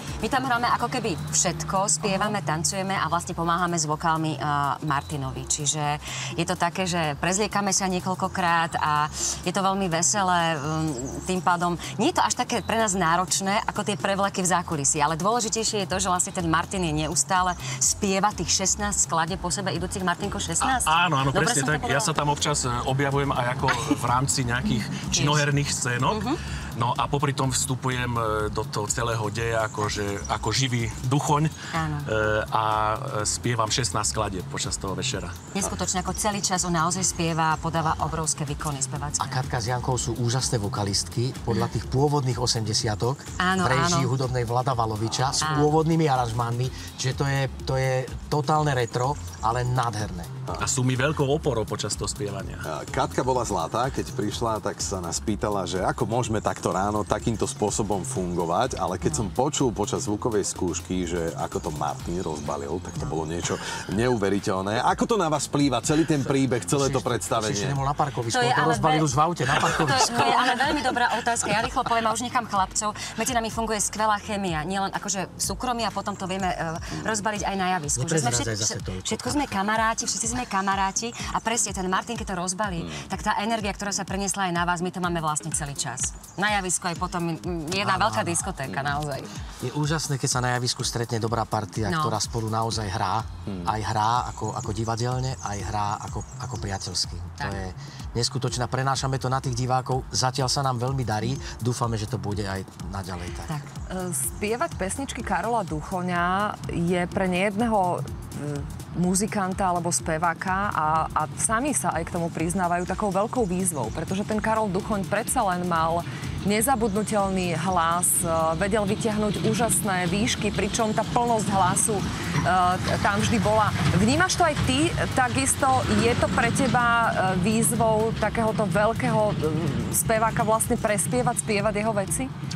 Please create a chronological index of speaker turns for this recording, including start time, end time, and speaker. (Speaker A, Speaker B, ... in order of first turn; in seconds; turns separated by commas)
Speaker A: 0.2-22.1, Speaker B: 20.6-31.5, Speaker A: 25.1-25.5, Speaker A: 26.1-26.4, Speaker A: 31.7-32.1, Speaker B: 32.0-35.3, Speaker A: 35.5-39.4, Speaker C: 39.2-50.3, Speaker A: 43.4-44.1, Speaker A: 45.4-45.8, Speaker B: 50.6-52.6, Speaker D: 52.6-67.8, Speaker C: 66.7-70.5, Speaker A: 68.3-69.1, Speaker A: 69.7-89.3, Speaker C: 77.9-79.6, Speaker C: 87.8-88.4, Speaker D: 88.7-89.0, Speaker C: 89.6-103.5, Speaker A: 91.8-92.2, Speaker D: 93.5-93.7, Speaker E: 103.9-132.3